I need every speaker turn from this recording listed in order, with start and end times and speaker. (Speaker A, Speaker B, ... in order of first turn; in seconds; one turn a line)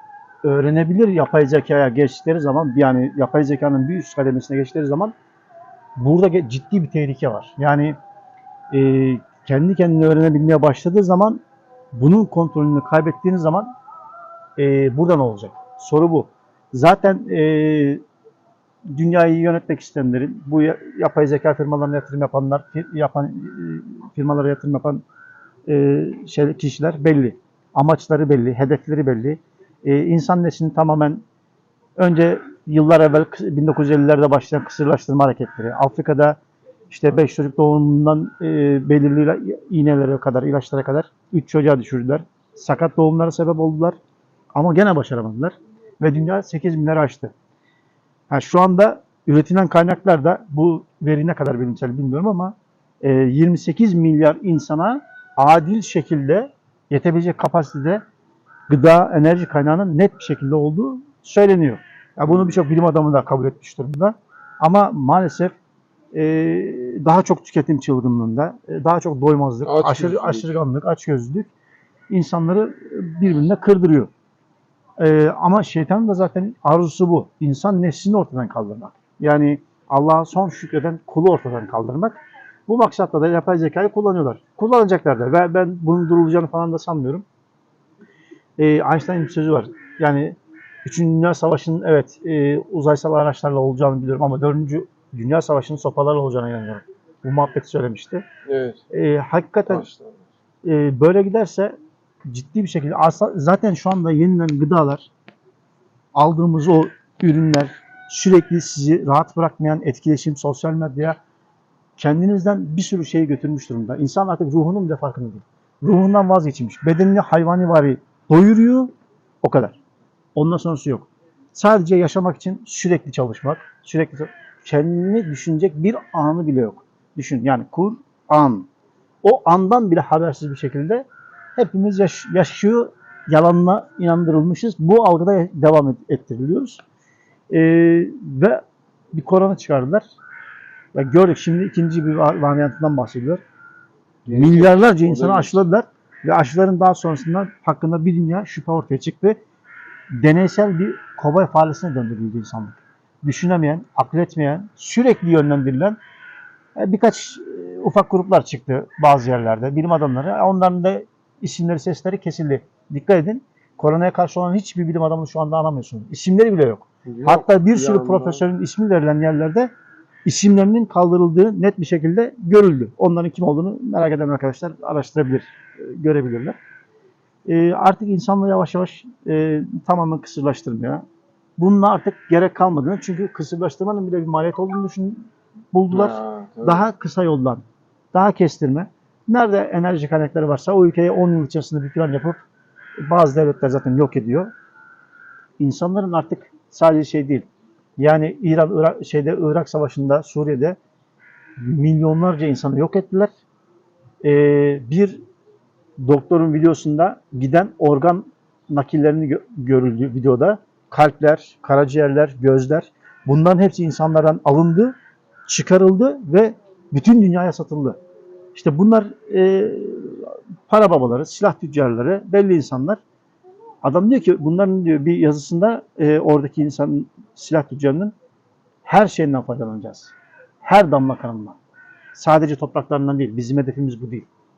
Speaker A: 0.4-5.1
Speaker A: 6.0-8.0
Speaker A: 8.7-11.4
Speaker A: 11.9-13.7
Speaker A: 14.6-18.0
Speaker A: 18.9-25.0
Speaker A: 25.6-31.2
Speaker A: 32.0-36.4
Speaker A: 36.9-44.0
Speaker A: 44.5-47.3
Speaker A: 48.3-58.0
Speaker A: 58.7-65.5
Speaker B: 62.2-62.6
Speaker A: 66.1-71.5
Speaker B: 69.6-70.5
Speaker A: 72.1-74.1
Speaker A: 75.0-87.2
Speaker A: 88.6-98.2
Speaker B: 98.5-98.8
Speaker A: 98.9-99.8
Speaker B: 99.7-100.3
Speaker A: 100.6-101.7
Speaker A: 102.2-105.1
Speaker A: 106.1-111.2
Speaker A: 112.0-119.8
Speaker A: 120.3-128.7
Speaker A: 129.2-136.8
Speaker A: 137.5-140.1
Speaker A: 140.9-143.4
Speaker B: 144.2-145.6
Speaker A: 144.3-149.4
Speaker A: 150.2-156.0
Speaker A: 156.8-169.7
Speaker B: 167.1-168.4
Speaker A: 170.2-176.6
Speaker A: 177.4-181.0
Speaker A: 181.6-192.4
Speaker B: 185.9-186.8
Speaker A: 193.1-194.5
Speaker A: 195.6-200.8
Speaker A: 201.6-203.3
Speaker A: 204.2-205.2
Speaker A: 206.0-218.0
Speaker A: 218.5-223.0
Speaker A: 223.8-228.1
Speaker A: 228.8-231.6
Speaker A: 232.1-234.3